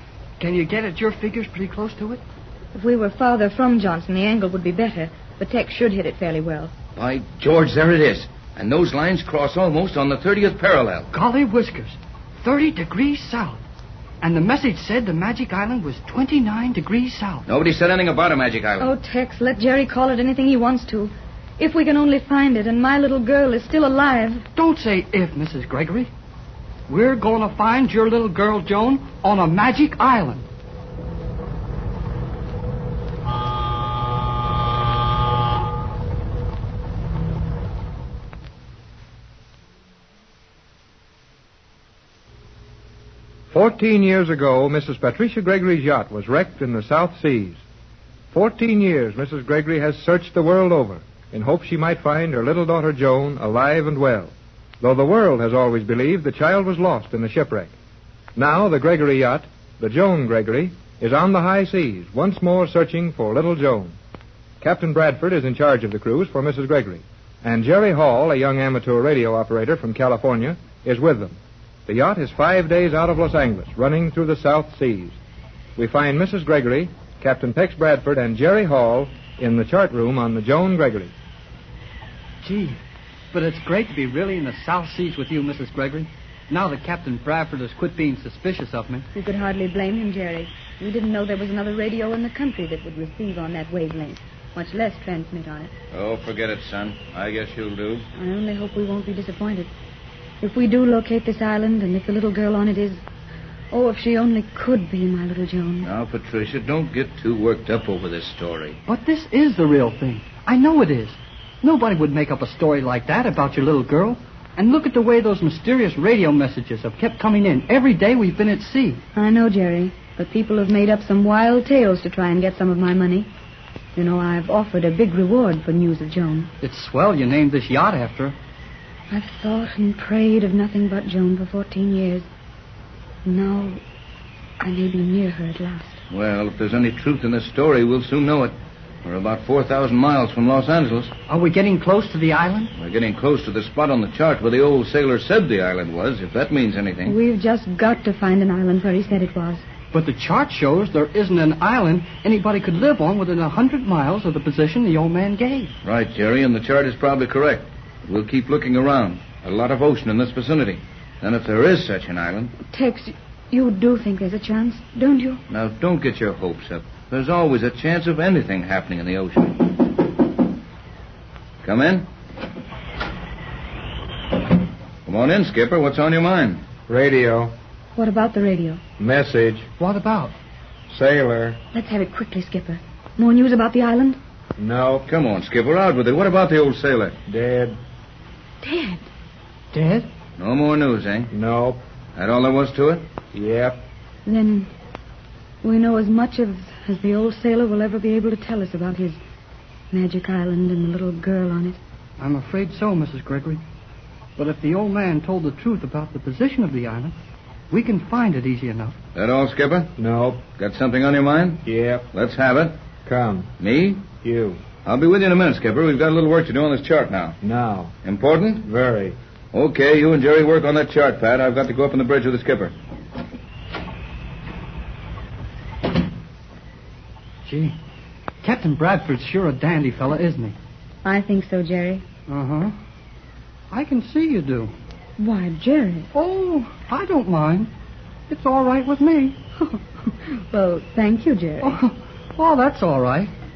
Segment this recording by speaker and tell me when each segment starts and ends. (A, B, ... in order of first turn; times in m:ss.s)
0:00.4-0:02.2 A
0:02.7-0:06.7 B
0:07.0-0:11.1 C
0:11.1-0:13.6 A
0:14.2-0:17.4 A
0:17.5-0:18.9 C
0:18.8-0:24.4 B
0:24.6-0:26.1 A
0:26.9-0:30.4 A
0:43.5-0:47.6 D
0:48.3-0:57.7 D
0:58.4-1:04.0 D
1:04.6-1:15.2 D
1:15.8-1:21.1 D
1:22.4-1:22.8 A
1:23.3-1:29.0 A
1:29.1-1:35.7 B
1:35.9-1:38.0 C
1:38.1-1:39.7 B
1:40.4-1:43.0 B
1:43.7-1:45.9 B
1:45.8-1:48.8 C
1:48.9-1:59.0 A
1:59.1-2:03.3 B
2:03.9-2:06.5 B
2:06.6-2:08.3 A
2:09.1-2:12.3 B
2:13.2-2:13.8 B
2:14.6-2:16.0 B
2:16.1-2:21.1 C
2:21.3-2:22.7 A
2:22.7-2:27.1 C
2:27.0-2:29.6 B
2:29.9-2:35.7 A
2:35.8-2:42.5 C
2:42.7-2:45.4 B
2:45.5-2:49.6 C
2:51.6-2:52.1 C
2:55.0-2:56.6 C
2:56.9-2:57.5 D
2:58.0-2:58.8 B
2:59.0-2:59.6 D
2:59.8-3:00.3 A
3:00.9-3:01.6 D
3:01.7-3:04.2 B
3:04.6-3:05.0 D
3:05.0-3:07.2 C
3:07.3-3:07.8 D
3:08.6-3:09.0 B
3:09.7-3:10.1 A
3:10.4-3:11.3 C
3:11.3-3:11.8 D
3:12.1-3:13.1 C
3:13.3-3:13.8 D
3:14.2-3:14.7 B
3:15.6-3:19.2 B
3:19.9-3:21.8 B
3:22.2-3:23.6 A
3:24.4-3:27.1 A
3:27.7-3:29.0 A
3:29.1-3:29.9 C
3:30.0-3:30.4 D
3:30.5-3:32.8 C
3:31.6-3:32.1 D
3:33.0-3:33.5 D
3:33.6-3:34.1 C
3:34.2-3:34.6 D
3:34.8-3:37.4 C
3:37.4-3:37.9 D
3:38.0-3:38.6 C
3:38.6-3:39.2 D
3:39.5-3:42.7 C
3:47.4-3:47.7 A
3:48.4-3:50.5 A
3:51.0-3:52.0 B
3:52.3-3:52.7 A
3:53.7-3:54.7 A
3:55.2-3:56.1 B
3:56.1-3:57.7 A
3:58.3-3:59.4 A
3:59.6-4:01.8 B
4:01.6-4:03.3 A